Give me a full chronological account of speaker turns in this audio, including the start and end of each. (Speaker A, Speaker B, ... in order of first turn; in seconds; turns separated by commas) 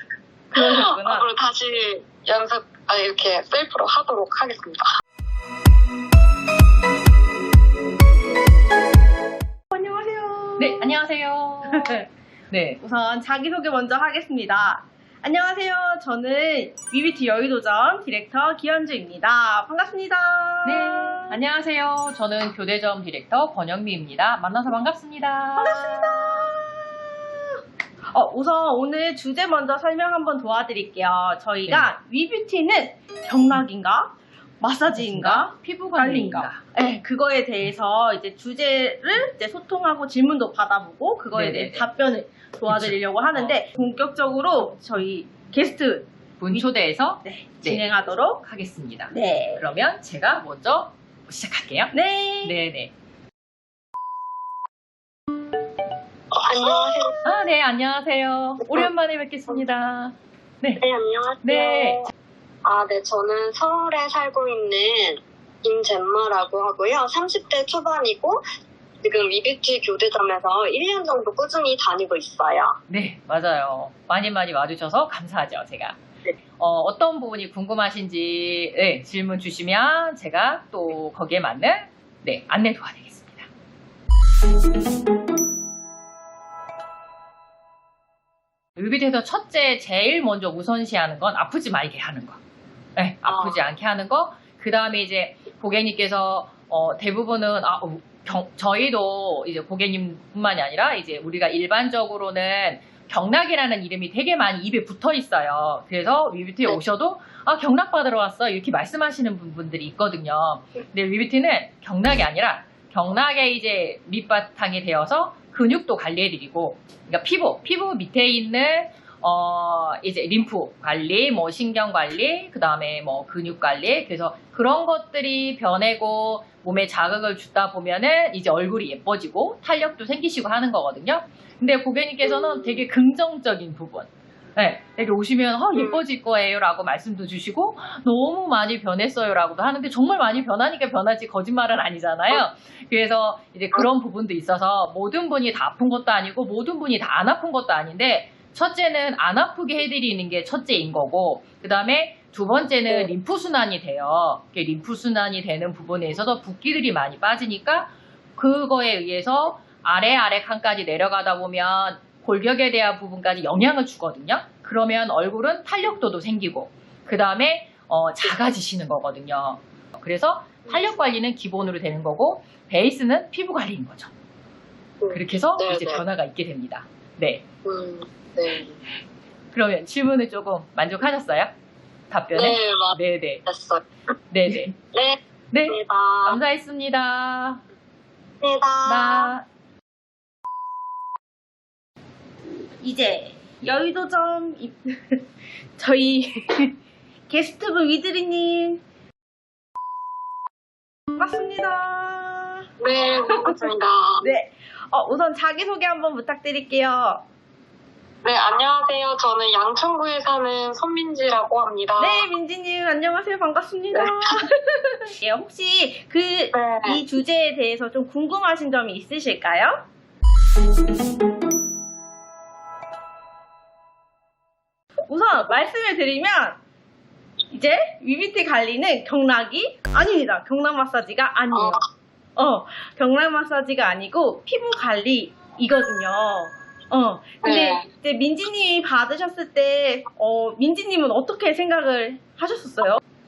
Speaker A: 0.5-1.3, Speaker B: 0.5-4.8, Speaker A: 9.7-11.0, Speaker C: 10.6-12.8, Speaker A: 11.7-12.0, Speaker A: 12.8-21.4, Speaker C: 20.6-26.0, Speaker A: 25.6-27.1, Speaker A: 28.1-46.6, Speaker C: 31.6-31.9, Speaker C: 34.9-36.6, Speaker C: 41.3-41.9, Speaker C: 42.7-43.6, Speaker C: 46.4-47.8, Speaker A: 47.2-48.4, Speaker C: 48.4-52.9, Speaker A: 49.1-49.6, Speaker A: 51.9-52.5, Speaker B: 56.3-57.2, Speaker C: 57.2-60.8, Speaker B: 60.8-62.1, Speaker C: 61.4-62.1, Speaker B: 62.6-68.4, Speaker B: 69.0-72.8, Speaker C: 72.9-76.0, Speaker C: 76.6-83.5, Speaker C: 88.8-92.4, Speaker C: 93.0-174.1, Speaker B: 93.2-93.6, Speaker B: 132.2-132.8, Speaker B: 175.0-176.0, Speaker C: 175.1-177.5, Speaker B: 177.6-178.8, Speaker C: 179.5-181.5, Speaker C: 182.1-183.4, Speaker B: 182.3-183.8, Speaker C: 184.3-184.7, Speaker B: 184.5-186.4, Speaker C: 185.5-187.6, Speaker B: 188.4-189.3, Speaker C: 188.8-189.4, Speaker A: 192.8-195.2, Speaker A: 195.8-196.7, Speaker A: 197.3-198.8, Speaker A: 201.2-202.7, Speaker B: 202.8-204.2, Speaker A: 203.3-203.6, Speaker A: 204.2-207.2, Speaker B: 208.2-212.3, Speaker A: 212.0-219.8, Speaker B: 214.0-214.3, Speaker B: 216.5-217.0, Speaker A: 225.1-226.6, Speaker A: 227.5-231.8, Speaker A: 232.3-243.0, Speaker B: 237.4-237.8